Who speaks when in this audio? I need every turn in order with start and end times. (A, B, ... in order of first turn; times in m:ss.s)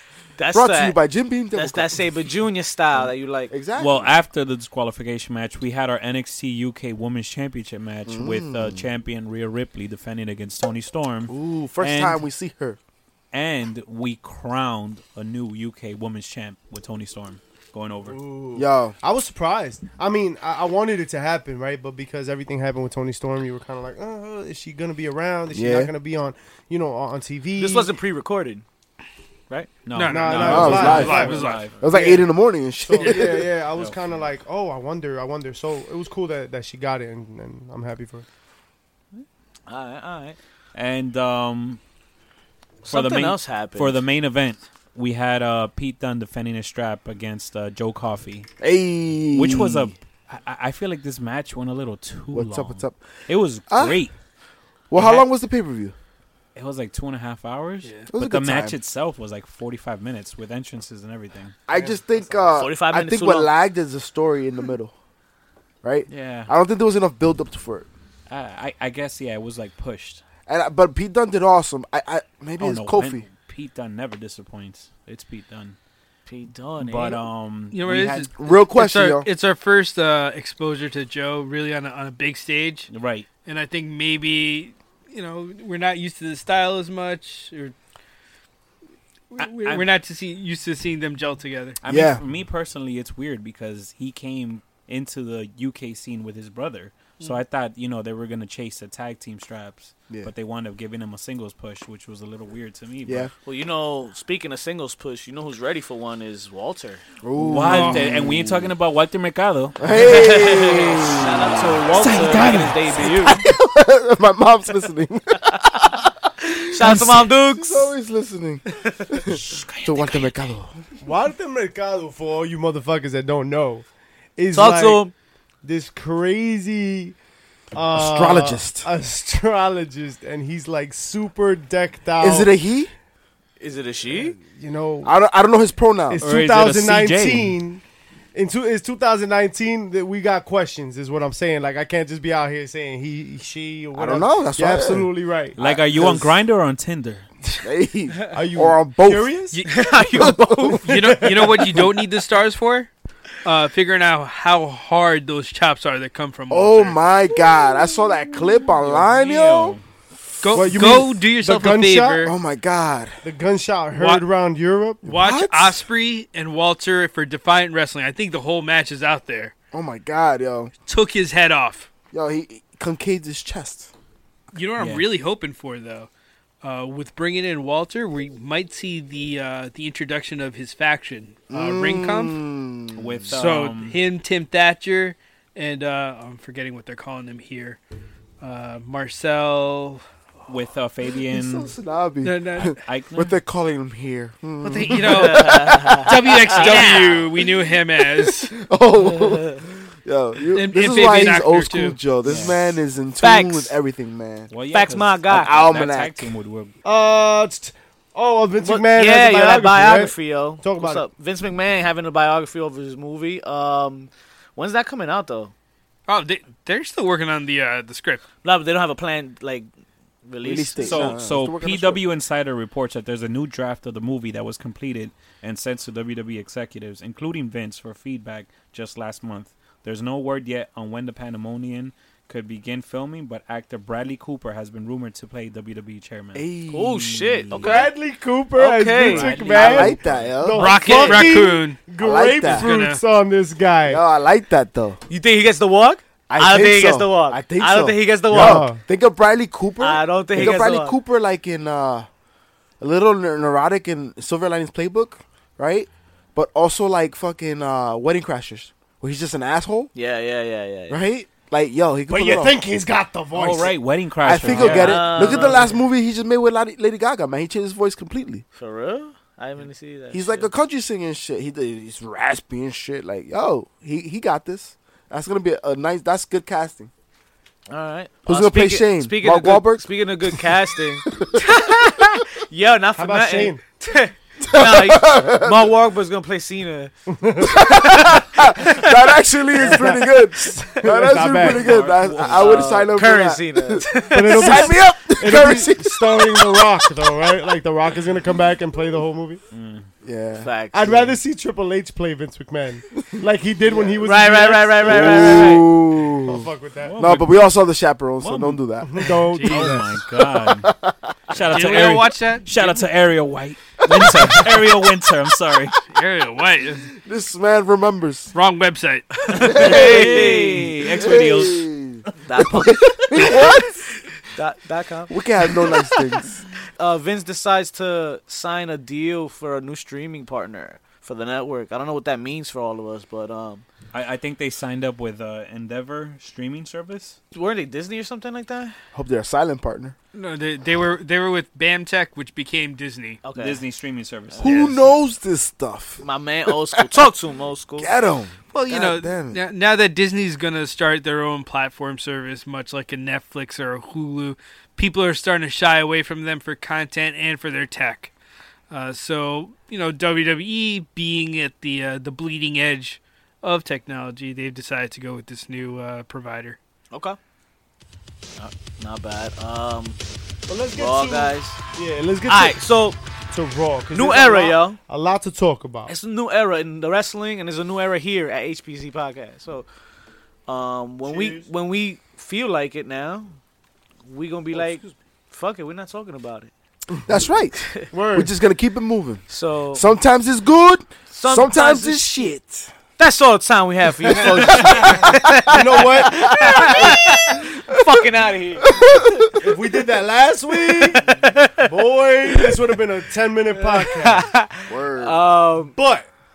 0:00.4-0:01.0 A
0:00.5-0:02.0 B
0:01.5-0:03.5 A
0:03.5-0:04.1 B
0:03.8-0:12.2 C
0:08.1-0:08.9 B
0:11.3-0:12.8 B
0:13.3-0:18.2 C
0:18.0-0:27.9 D
0:18.5-0:18.9 B
0:25.5-0:25.9 B
0:27.6-0:28.6 A
0:29.5-0:31.8 C
0:29.9-0:31.7 E
0:30.1-0:38.2 D
0:30.4-0:33.4 B
0:33.0-0:33.4 E
0:33.7-0:34.0 C
0:39.2-0:40.4 A
0:40.7-0:41.8 C
0:42.8-0:44.0 A
0:42.9-0:48.5 C
0:48.6-0:49.9 B
0:49.3-0:54.1 C
0:52.3-0:53.0 B
0:53.7-0:54.0 B
0:54.9-0:55.9 B
0:54.9-0:55.2 C
0:56.5-1:01.6 C
0:57.8-0:58.1 E
0:58.1-0:58.8 B
1:01.7-1:04.9 B
1:01.7-1:02.6 D
1:02.5-1:03.5 A
1:05.8-1:07.9 B
1:06.1-1:06.5 C
1:08.3-1:10.2 C
1:10.5-1:13.2 B
1:12.6-1:15.8 C
1:16.3-1:17.2 A
1:16.8-1:18.0 C
1:17.7-1:22.9 E
1:17.9-1:19.3 B
1:22.9-1:23.3 C
1:23.4-1:27.7 E
1:29.3-1:31.8 E
1:29.4-1:29.9 C
1:31.8-1:43.3 C
1:31.8-1:32.2 B
1:43.0-1:43.3 B
1:43.4-1:47.0 A
1:47.2-1:48.7 B
1:47.4-1:50.3 C
1:47.6-1:48.1 E
1:49.8-1:52.1 B
1:49.9-1:53.4 A
1:51.9-1:52.6 C
1:52.0-1:52.8 D
1:52.9-1:56.5 B
1:56.5-1:57.9 A
1:56.8-1:57.2 C
1:57.5-2:00.7 B
1:59.3-2:00.4 C
2:01.0-2:03.8 D
2:04.4-2:05.0 D
2:04.5-2:05.1 A
2:05.6-2:07.1 D
2:07.7-2:12.5 D
2:07.9-2:08.9 B
2:12.2-2:12.9 B
2:13.6-2:14.4 A
2:14.4-2:15.1 D
2:15.0-2:16.2 B
2:16.1-2:17.8 D
2:16.2-2:17.6 C
2:18.3-2:25.6 D
2:23.9-2:26.4 B
2:25.6-2:27.2 C
2:27.6-2:29.3 B
2:28.3-2:29.6 D
2:29.5-2:29.8 E
2:29.6-2:30.9 A
2:30.2-2:30.8 B
2:30.8-2:32.9 E
2:30.9-2:31.7 D
2:33.4-2:37.0 E
2:36.5-2:39.8 B
2:38.7-2:39.8 C
2:40.4-2:42.3 E
2:40.5-2:42.3 D
2:42.2-2:43.2 B
2:43.2-2:45.0 D
2:43.9-2:44.2 E
2:45.0-2:45.8 B
2:45.0-2:49.5 E
2:49.7-2:50.7 B
2:50.9-2:51.9 E
2:52.1-2:53.9 B
2:54.5-2:56.1 E
2:54.8-2:55.1 C
2:56.6-3:02.4 E
3:01.5-3:03.3 B
3:02.9-3:04.0 C
3:03.3-3:07.8 E
3:08.4-3:10.0 E
3:10.5-3:11.7 C
3:11.3-3:17.5 B
3:12.2-3:12.8 E
3:12.8-3:13.3 C
3:14.6-3:18.5 E
3:15.1-3:17.2 A
3:18.2-3:24.5 B
3:20.5-3:22.0 E
3:22.2-3:22.7 C
3:23.2-3:23.7 A
3:24.5-3:26.7 C
3:24.7-3:25.6 A
3:25.3-3:26.3 B
3:26.8-3:31.0 D
3:28.6-3:35.5 A
3:36.1-3:38.2 E
3:38.4-3:39.7 A
3:40.2-3:41.2 A
3:40.4-3:42.0 B
3:40.8-3:56.5 C
3:56.3-3:57.7 B
3:56.7-3:57.9 A
3:57.5-3:57.9 C
3:57.6-4:04.0 D
3:58.5-3:59.9 A
3:59.0-4:00.4 C
3:59.5-4:00.7 B
4:00.5-4:01.9 E
4:00.6-4:01.4 A
4:02.0-4:02.7 B
4:02.4-4:03.0 E
4:03.9-4:05.0 B
4:05.1-4:08.7 A
4:06.3-4:12.1 B
4:08.3-4:08.8 D
4:09.8-4:11.0 A
4:12.8-4:19.9 B
4:19.9-4:21.0 A
4:20.9-4:22.5 B
4:22.1-4:23.7 D
4:23.3-4:25.6 C
4:24.2-4:28.4 B
4:24.4-4:25.8 A
4:28.5-4:30.5 A
4:30.1-4:36.9 B
4:37.7-4:46.9 A
4:38.2-4:39.8 B
4:41.0-4:41.4 B
4:43.0-4:43.6 D
4:44.4-4:45.7 B
4:47.1-4:47.7 D
4:47.4-4:56.7 B
4:47.7-4:50.0 A
4:50.4-4:51.7 D
4:51.3-4:52.7 C
4:52.2-4:54.7 A
4:54.0-4:59.4 D
4:59.5-4:59.9 C
5:00.0-5:00.5 B
5:00.4-5:01.2 A
5:00.7-5:05.6 D
5:03.7-5:05.6 A
5:04.8-5:08.9 B
5:06.2-5:07.0 D
5:06.8-5:07.6 C
5:08.2-5:10.7 C
5:08.8-5:09.9 D
5:09.2-5:09.8 E
5:10.3-5:11.1 B
5:11.3-5:15.8 C
5:11.5-5:12.9 E
5:13.9-5:14.5 B
5:15.8-5:16.9 E
5:17.0-5:18.3 B
5:18.3-5:19.6 E
5:19.3-5:21.7 C
5:19.4-5:21.1 A
5:19.4-5:23.7 B
5:22.2-5:23.8 A
5:24.4-5:26.2 A
5:25.1-5:26.4 B
5:26.8-5:33.6 A
5:33.9-5:37.2 C
5:37.3-5:38.7 A
5:38.9-5:39.9 B
5:40.1-5:43.2 E
5:43.2-5:43.6 A
5:43.3-5:44.7 C
5:44.4-5:46.9 B
5:44.5-5:44.7 E
5:46.0-5:47.9 A
5:47.8-5:49.4 B
5:48.5-5:58.1 E
5:58.7-6:06.6 E
6:06.9-6:07.2 A
6:08.4-6:10.0 A
6:10.5-6:12.6 D
6:10.7-6:11.6 A
6:12.3-6:13.0 A
6:13.3-6:15.9 D
6:13.9-6:14.8 A
6:15.9-6:19.7 A
6:20.5-6:23.3 A
6:21.0-6:21.4 D
6:24.1-6:26.5 A
6:27.0-6:32.7 B
6:27.9-6:28.3 D
6:29.3-6:29.8 A
6:31.1-6:32.3 A
6:33.0-6:39.2 A
6:34.0-6:38.0 B
6:35.5-6:36.3 D
6:38.6-6:39.3 B
6:39.4-6:41.0 D
6:40.7-6:41.7 A
6:41.6-6:44.3 D
6:43.6-6:45.7 A
6:44.7-6:45.2 B
6:45.7-6:46.1 D